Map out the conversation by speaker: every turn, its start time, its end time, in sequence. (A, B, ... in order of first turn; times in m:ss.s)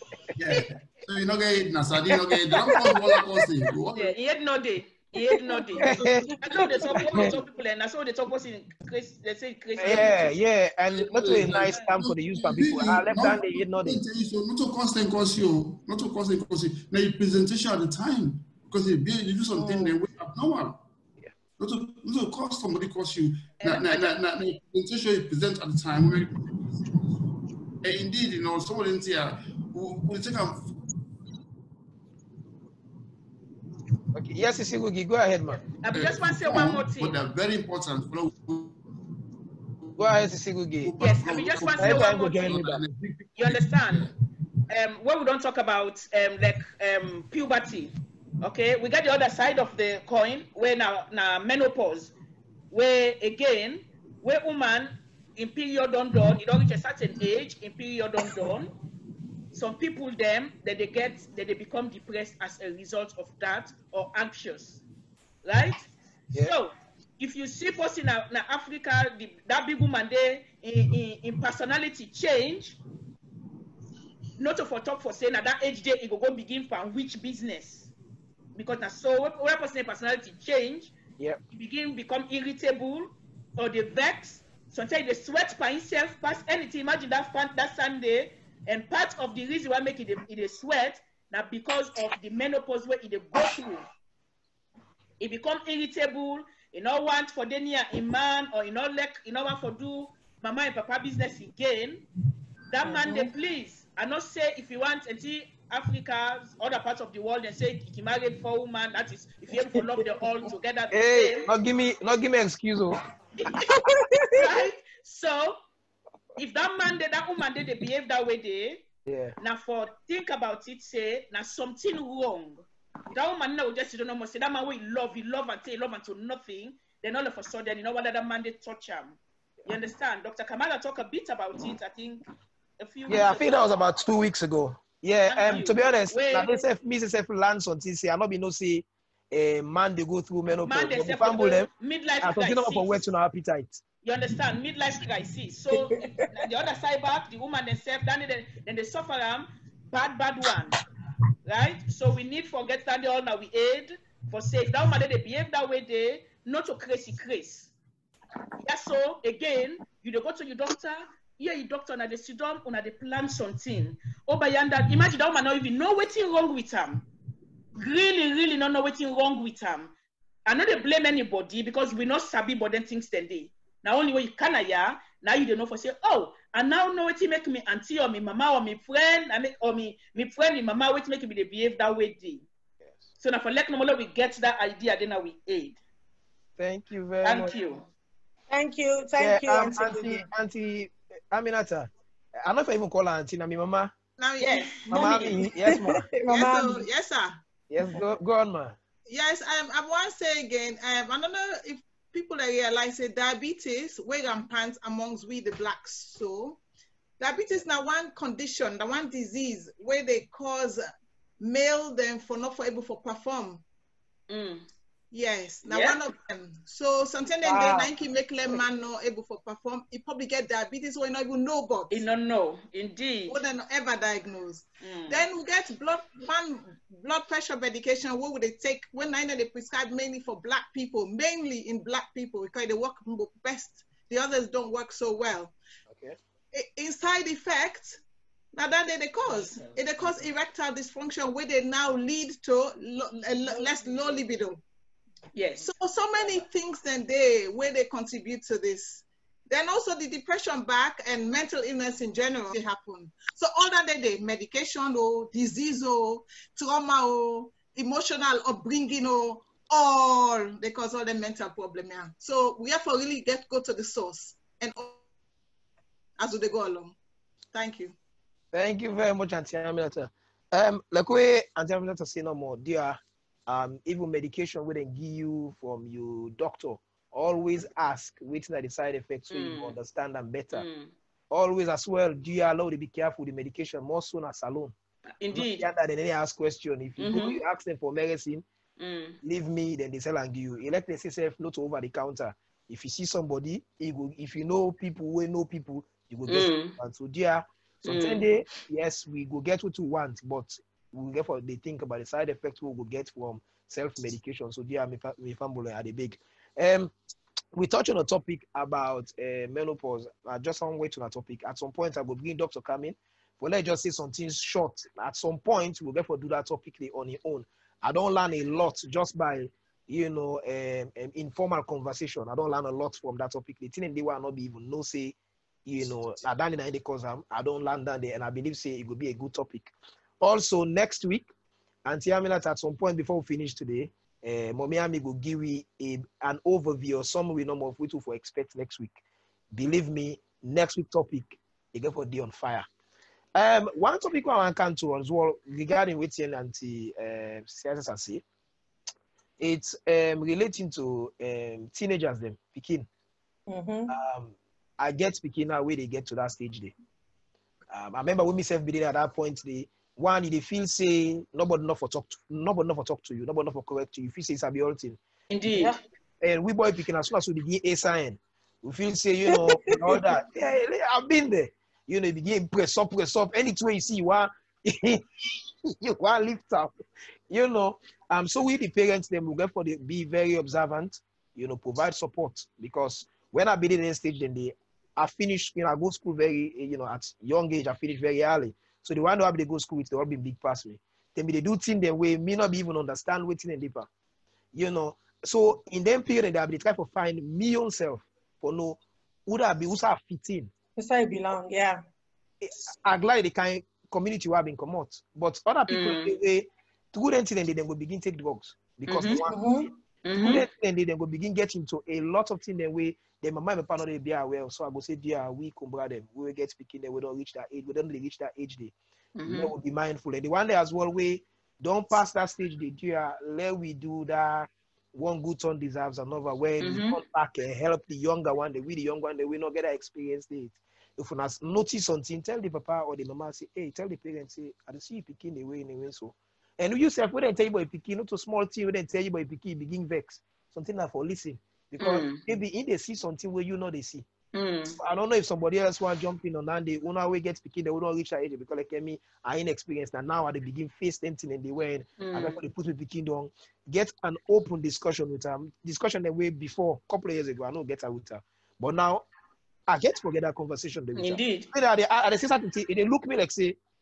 0:00.4-0:04.2 A
0:04.0-0:10.4 B
0:05.4-0:07.3 C
0:05.8-0:07.3 D
0:09.8-0:14.0 D
0:10.9-0:20.8 A
0:19.6-0:19.9 C
0:21.6-0:27.2 A
0:23.6-0:24.2 B
0:27.8-0:30.8 A
0:34.1-0:35.6 D
0:35.8-0:37.2 B
0:35.9-0:38.8 A
0:40.0-0:40.2 A
0:40.0-0:40.9 D
0:40.8-0:44.1 A
0:41.0-0:42.6 B
0:41.8-0:42.8 D
0:43.4-0:44.1 B
0:44.7-0:52.1 B
0:52.7-0:58.7 B
0:59.5-1:04.8 B
1:05.4-1:05.9 B
1:06.4-1:12.8 B
1:14.4-1:17.9 B
1:18.6-1:20.9 B
1:21.5-1:33.9 B
1:35.2-1:42.0 B
1:42.7-1:51.5 B
1:42.8-1:43.3 C
1:50.9-1:53.0 D
1:53.7-1:54.5 C
1:54.3-1:55.6 B
1:56.4-1:58.8 B
1:59.1-1:59.4 D
1:59.4-2:12.2 B
2:12.8-2:13.5 B
2:13.1-2:21.7 D
2:15.3-2:16.6 B
2:20.7-2:23.0 B
2:22.2-2:23.8 D
2:24.0-2:30.8 B
2:25.8-2:26.3 C
2:31.4-2:37.7 B
2:38.6-2:47.0 B
2:47.8-2:49.9 B
2:50.5-3:02.5 B
3:03.2-3:05.8 B
3:06.6-3:07.6 D
3:07.2-3:07.8 B
3:08.5-3:10.3 C
3:09.2-3:13.9 D
3:14.2-3:15.2 E
3:14.4-3:15.3 B
3:14.9-3:16.9 C
3:14.9-3:16.0 D
3:16.3-3:17.4 E
3:17.7-3:18.8 D
3:19.1-3:26.6 E
3:27.2-3:30.9 E
3:31.4-3:33.6 E
3:34.3-3:34.7 B
3:35.1-3:42.0 E
3:35.6-3:36.0 B
3:37.4-3:37.9 C
3:41.9-3:43.4 B
3:43.3-3:55.5 E
3:44.8-3:45.2 B
3:55.9-3:56.2 D
3:56.5-3:58.0 E
3:58.5-4:04.6 E
3:59.3-4:00.2 B
4:05.3-4:05.7 B
4:05.6-4:25.0 E
4:26.2-4:27.0 E
4:27.5-4:28.0 E
4:28.5-4:40.6 D
4:39.3-4:39.7 B
4:40.5-4:40.9 B
4:41.3-4:44.7 D
4:45.2-4:45.7 B
4:45.3-4:48.4 D
4:47.0-4:47.4 B
4:48.8-4:49.2 B
4:49.2-5:06.9 D
4:56.3-4:56.8 B
4:57.8-4:58.3 B
5:07.5-5:31.3 D
5:31.8-5:39.0 D
5:39.5-5:42.7 D
5:43.4-5:48.2 D
5:49.4-5:52.9 D
5:53.5-5:53.9 C
5:53.9-5:56.7 D
5:57.7-6:05.0 D
6:05.3-6:05.8 B
6:05.5-6:05.8 C
6:06.2-6:16.8 D
6:09.3-6:10.0 C
6:17.3-6:33.9 D
6:34.5-6:40.5 D
6:40.8-6:41.8 C
6:42.4-6:49.5 D
6:45.7-6:46.1 B
6:48.9-6:49.2 B
6:49.3-6:49.7 C
6:50.0-6:50.4 B
6:50.1-7:24.0 D
6:59.2-6:59.5 B
7:06.6-7:07.0 B
7:21.8-7:22.2 B
7:24.3-7:24.8 B
7:24.6-7:39.0 D
7:32.0-7:32.4 B
7:39.7-7:43.6 D
7:41.0-7:41.5 B